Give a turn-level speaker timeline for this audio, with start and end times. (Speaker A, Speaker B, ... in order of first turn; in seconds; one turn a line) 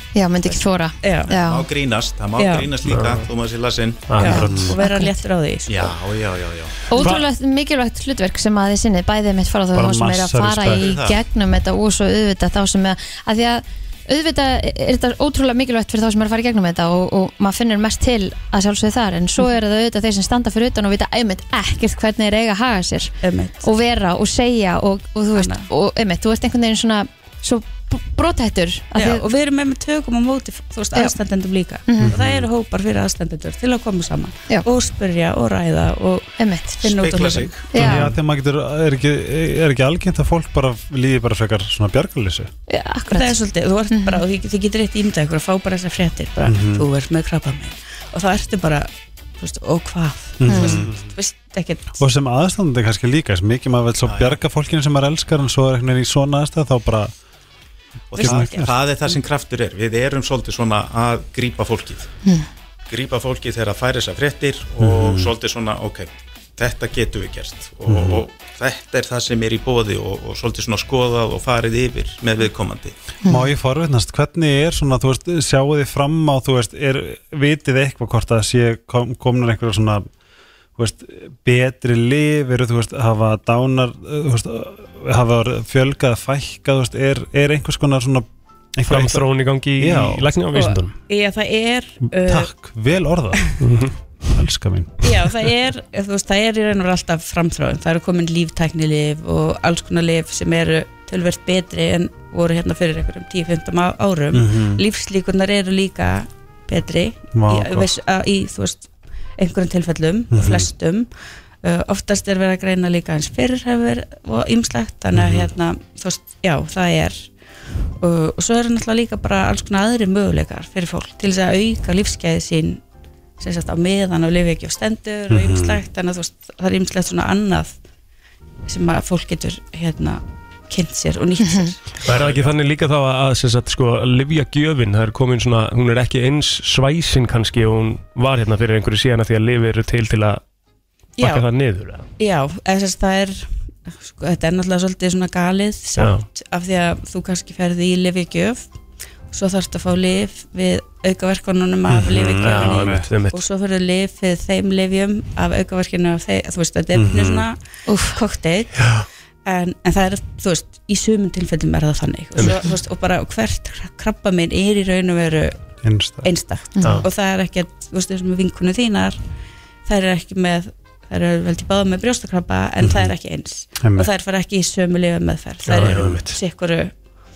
Speaker A: 0.1-1.6
Speaker B: 0.4-1.4
Speaker C: 1.3-4.1
Speaker B: 2.4-2.8
Speaker D: 2.9-3.2
Speaker D: 4.1-4.5
Speaker B: 4.1-5.9
Speaker A: 4.2-5.2
Speaker E: 4.4-4.8
Speaker C: 5.7-6.8
Speaker A: 6.9-29.2
Speaker D: 7.0-7.2
Speaker E: 9.7-10.9
Speaker C: 10.7-11.2
Speaker B: 23.2-23.6
Speaker B: 25.3-25.7
Speaker B: 28.9-37.7
Speaker A: 31.9-32.2
Speaker E: 32.0-32.5
Speaker A: 36.4-36.9
Speaker C: 36.8-37.7
Speaker A: 37.7-38.1
Speaker E: 37.7-42.5
Speaker D: 37.8-38.1
Speaker A: 42.7-43.4
Speaker B: 43.1-52.0
Speaker A: 43.9-44.2
Speaker E: 46.4-46.9
Speaker E: 50.4-51.0
Speaker A: 50.5-50.8
Speaker E: 52.0-57.1
Speaker C: 54.0-54.4
Speaker C: 58.1-62.1
Speaker E: 58.1-58.8
Speaker B: 58.1-59.1
Speaker C: 62.9-72.9
Speaker E: 64.8-65.3
Speaker E: 67.9-68.2
Speaker A: 73.2-73.5
Speaker E: 73.3-80.1
Speaker E: 80.8-90.3
Speaker D: 88.8-91.0
Speaker B: 90.5-92.5
Speaker E: 92.1-93.6
Speaker D: 93.6-93.9
Speaker E: 94.3-95.3
Speaker B: 95.0-111.1
Speaker E: 104.3-104.8
Speaker E: 107.3-108.0
Speaker E: 110.3-110.7
Speaker B: 111.6-117.3
Speaker E: 115.1-115.5
Speaker B: 118.0-122.8
Speaker B: 123.4-127.8
Speaker E: 125.3-125.8
Speaker B: 128.7-132.1
Speaker D: 132.0-140.4
Speaker C: 132.1-132.5
Speaker B: 141.2-141.4
Speaker D: 141.2-142.1
Speaker B: 142.2-148.7
Speaker D: 146.0-146.3
Speaker B: 149.3-158.9
Speaker E: 151.9-153.1
Speaker D: 152.4-153.4
Speaker E: 156.9-157.4
Speaker A: 157.9-158.2
Speaker B: 159.4-165.6
Speaker D: 162.4-162.6
Speaker E: 165.8-166.3
Speaker B: 166.2-169.2
Speaker A: 166.8-167.0
Speaker D: 166.8-167.1
Speaker B: 169.8-176.9
Speaker E: 172.8-173.1
Speaker E: 173.8-174.1
Speaker D: 175.7-176.4
Speaker E: 175.8-176.1